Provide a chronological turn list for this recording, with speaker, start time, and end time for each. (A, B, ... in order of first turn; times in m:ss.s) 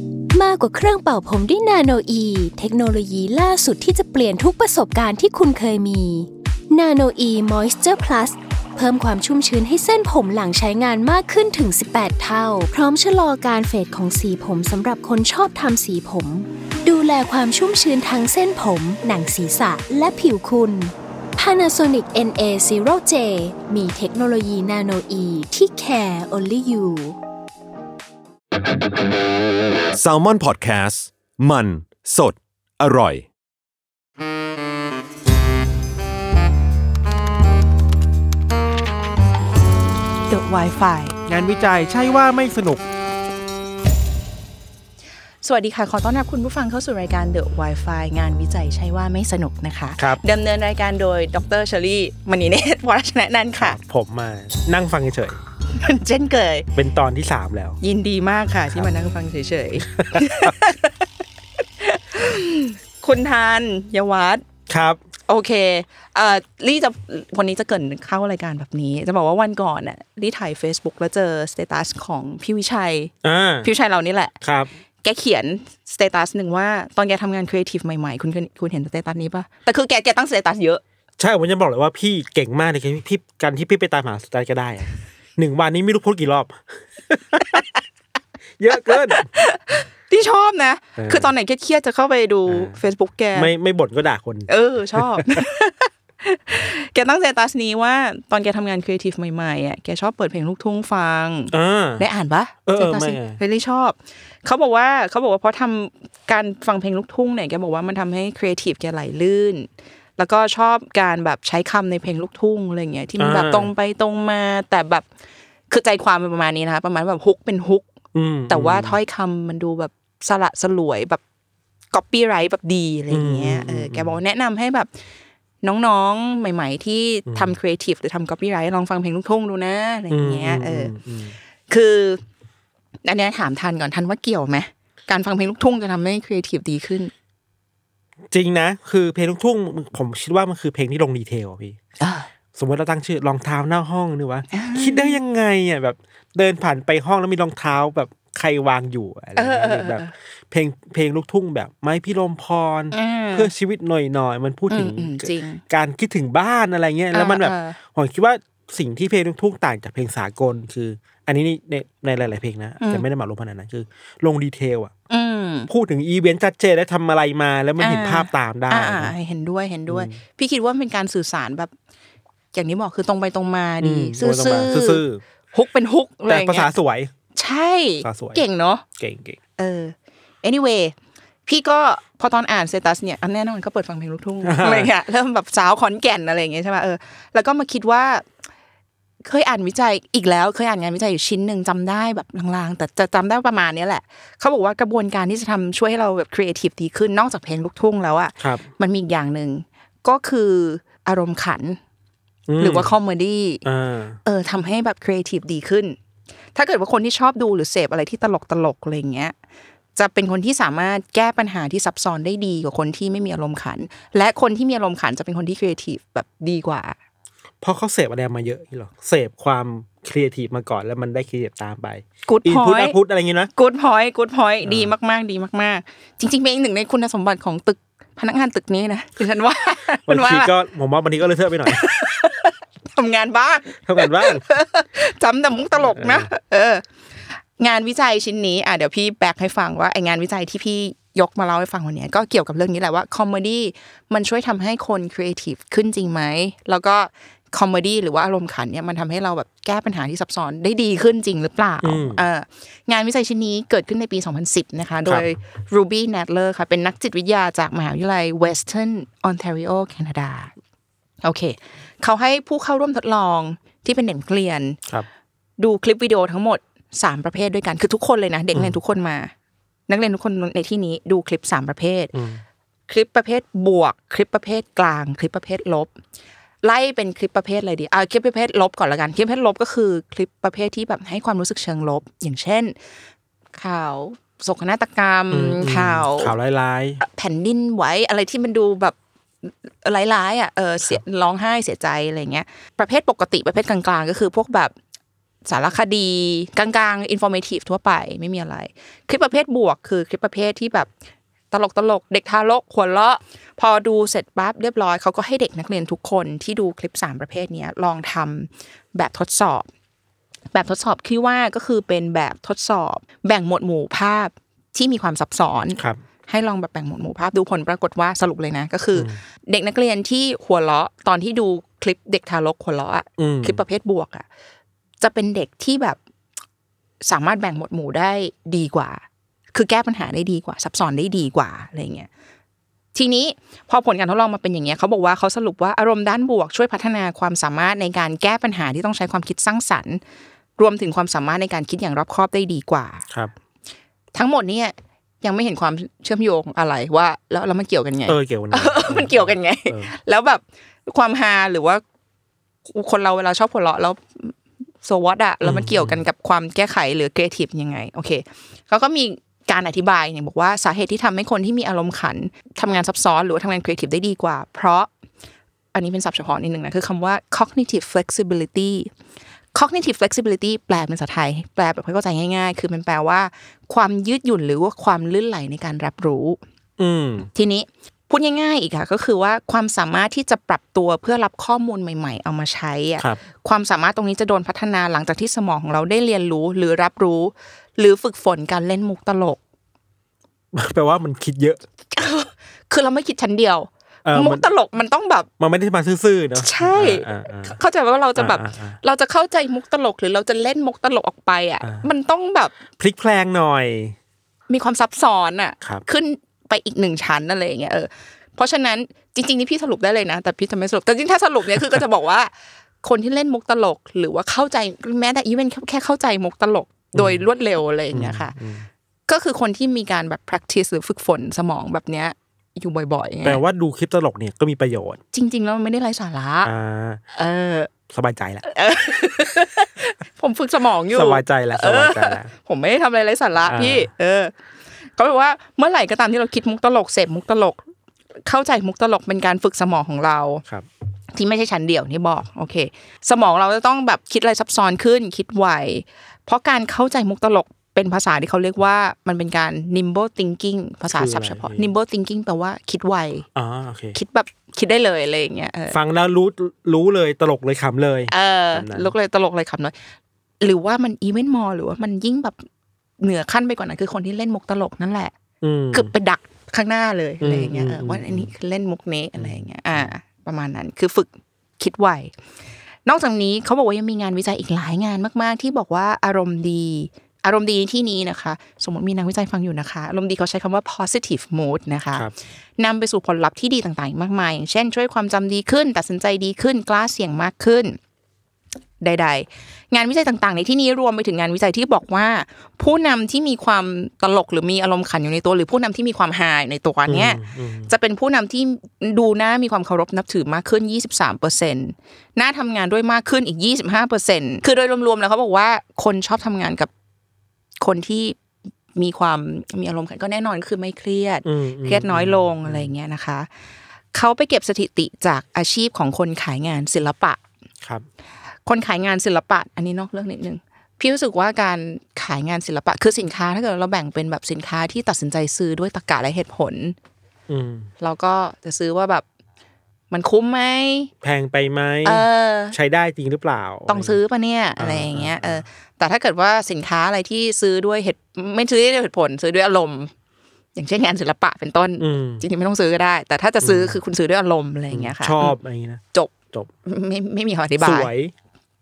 0:00.3-0:27.2 A
0:29.9-0:33.3 B
0:40.3-0:41.2 C
0:41.2-0:42.8 D
0:45.4-0:53.8 C
0:53.6-0:55.4 D
0:55.7-0:56.7 C
0:56.7-0:57.8 D
0:57.8-1:01.0 C
1:00.0-1:00.5 D
1:01.8-1:04.4 C
1:04.7-1:05.0 D
1:05.3-1:14.4 C
1:13.2-1:13.7 D
1:14.4-1:14.7 D
1:15.0-1:20.8 C
1:21.2-1:27.6 D
1:28.6-1:29.2 D
1:28.8-1:33.5 C
1:31.0-1:31.3 D
1:32.5-1:32.8 D
1:33.3-1:35.4 D
1:34.5-1:55.1 C
1:41.5-1:42.1 D
1:42.6-1:43.4 D
1:53.2-1:53.7 D
1:55.7-1:57.8 C
1:58.1-1:59.0 D
1:58.5-2:01.2 C
2:01.9-2:04.9 C
2:03.1-2:04.2 D
2:05.6-2:10.9 C
2:07.3-2:07.6 D
2:10.1-2:11.4 D
2:11.7-2:12.2 C
2:13.0-2:17.1 C
2:18.3-2:21.8 D
2:22.0-2:22.3 C
2:22.6-2:44.9 D
2:24.5-2:25.2 C
2:29.4-2:30.1 C
2:32.9-2:33.5 C
2:34.7-2:35.6 C
2:37.1-2:37.8 C
2:42.8-2:43.0 C
2:45.1-2:45.7 C
2:45.7-2:49.1 D
2:47.8-2:51.7 C
2:49.9-2:50.2 D
2:52.5-2:56.7 C
2:53.8-2:55.2 D
2:56.3-2:57.1 D
2:57.3-2:58.8 C
2:58.0-2:58.4 D
2:59.0-2:59.4 D
2:59.6-3:00.9 C
3:01.4-3:08.2 C
3:04.4-3:04.9 D
3:09.2-3:21.8 C
3:18.4-3:18.6 D
3:22.5-3:22.9 D
3:22.6-3:23.6 C
3:23.6-3:24.2 D
3:24.2-3:26.0 C
3:26.5-3:29.4 C
3:29.9-3:37.0 C
3:37.6-3:43.5 D
3:42.2-3:43.0 C
3:43.5-3:50.5 C
3:44.6-3:44.9 D
3:50.1-3:51.8 D
3:51.6-3:56.8 C
3:53.8-3:54.4 D
3:55.8-3:56.3 D
3:57.6-4:20.5 C
4:11.8-4:12.2 D
4:21.2-4:24.8 C
4:25.6-4:29.3 C
4:28.5-4:28.8 D
4:29.9-4:32.1 C
4:32.1-4:32.4 D
4:32.9-4:35.9 C
4:36.6-4:42.8 C
4:43.5-4:46.4 C
4:45.3-4:47.0 D
4:47.0-4:54.7 C
4:55.4-5:00.9 C
5:01.5-5:09.7 C
5:10.5-5:24.2 C
5:18.9-5:19.2 D
5:23.2-5:23.6 D
5:25.0-5:26.0 C
5:27.0-5:32.1 C
5:32.9-5:40.0 C
5:40.6-5:43.0 C
5:44.1-5:51.8 C
5:48.1-5:49.9 D
5:52.7-6:04.9 C
5:55.4-5:56.0 D
6:05.7-6:08.9 C
6:09.5-6:16.4 C
6:16.8-6:17.3 D
6:17.3-6:29.4 C
6:30.5-6:31.6 D
6:31.9-6:35.3 C
6:34.0-6:34.5 D
6:35.4-6:37.6 D
6:36.4-6:42.5 C
6:38.2-6:38.8 D
6:41.6-6:41.9 D
6:42.8-6:43.9 D
6:44.5-6:58.3 C
6:56.9-6:57.3 D
6:57.9-6:58.7 D
6:59.1-7:03.4 C
7:03.2-7:05.0 D
7:05.1-7:06.5 C
7:06.4-7:07.0 D
7:07.1-7:07.7 C
7:07.9-7:08.4 D
7:08.4-7:14.3 C
7:10.9-7:12.3 D
7:13.4-7:13.9 D
7:15.0-7:17.6 C
7:18.2-7:20.4 C
7:21.1-7:33.3 C
7:30.9-7:31.7 D
7:33.3-7:34.0 D
7:33.9-7:35.8 C
7:35.7-7:38.9 D
7:38.1-7:39.7 C
7:40.4-7:42.4 C
7:43.0-7:45.1 C
7:45.4-7:45.9 D
7:45.7-7:52.1 C
7:47.2-7:48.3 D
7:49.2-7:49.9 D
7:52.8-8:07.8 C
8:08.8-8:26.7 C
8:16.9-8:17.7 D
8:27.6-8:28.2 C
8:28.7-8:33.3 C
8:31.2-8:32.7 D
8:33.9-8:37.2 C
8:38.4-8:46.8 C
8:47.3-8:47.7 D
8:47.8-8:49.0 C
8:49.9-8:50.9 C
8:51.0-8:54.0 D
8:51.8-8:52.6 C
8:53.7-8:59.9 C
8:54.6-8:55.4 D
9:00.5-9:05.4 C
9:01.8-9:02.2 D
9:03.4-9:03.8 D
9:04.7-9:06.5 D
9:06.6-9:07.9 C
9:07.6-9:08.1 D